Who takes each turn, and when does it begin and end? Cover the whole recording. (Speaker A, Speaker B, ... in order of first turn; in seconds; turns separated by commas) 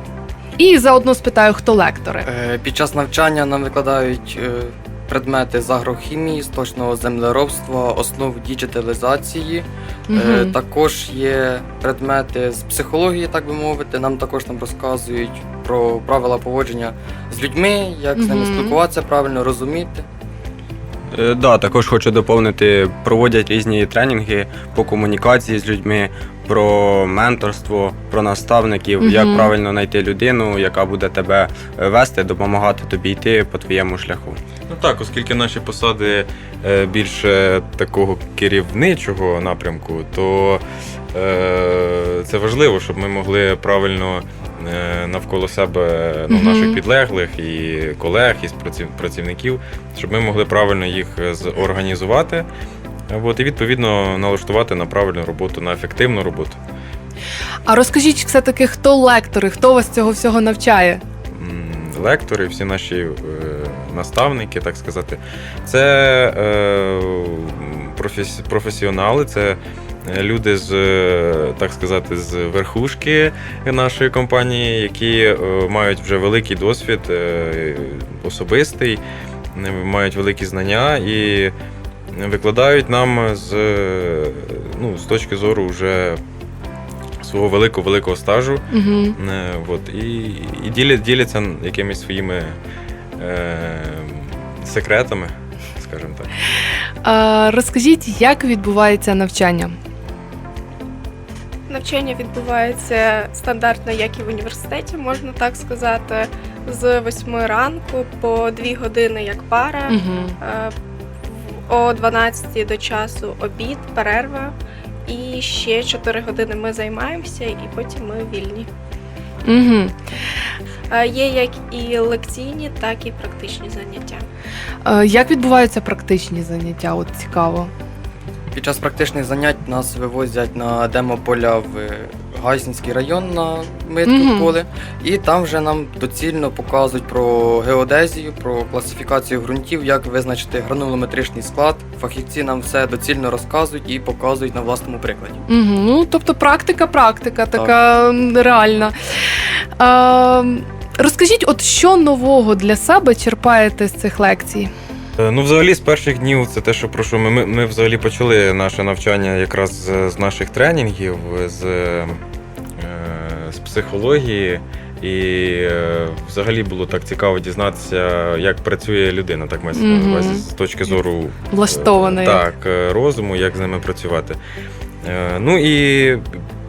Speaker A: 0.6-2.2, Speaker B: 2.2-20.0, Speaker A: 10.1-10.5, Speaker A: 18.1-18.8, Speaker C: 21.1-34.4, Speaker A: 29.0-29.5, Speaker D: 34.7-52.5, Speaker A: 46.3-46.8, Speaker D: 53.1-56.6, Speaker A: 57.6-61.0, Speaker D: 61.3-79.0, Speaker D: 79.5-81.5, Speaker D: 82.1-86.2, Speaker D: 87.2-88.6, Speaker A: 88.7-89.2, Speaker D: 89.2-92.6, Speaker D: 93.2-96.3, Speaker A: 97.0-99.7, Speaker E: 101.7-110.7, Speaker A: 109.9-110.3, Speaker E: 111.2-114.5, Speaker E: 115.0-118.7, Speaker A: 119.4-119.9, Speaker E: 120.9-124.2, Speaker A: 124.8-127.7, Speaker B: 128.5-145.4, Speaker A: 134.1-134.5, Speaker A: 145.5-148.9, Speaker A: 149.8-154.7, Speaker D: 155.2-162.2, Speaker D: 162.8-174.4, Speaker A: 169.7-170.4, Speaker A: 171.5-172.4, Speaker D: 175.0-176.3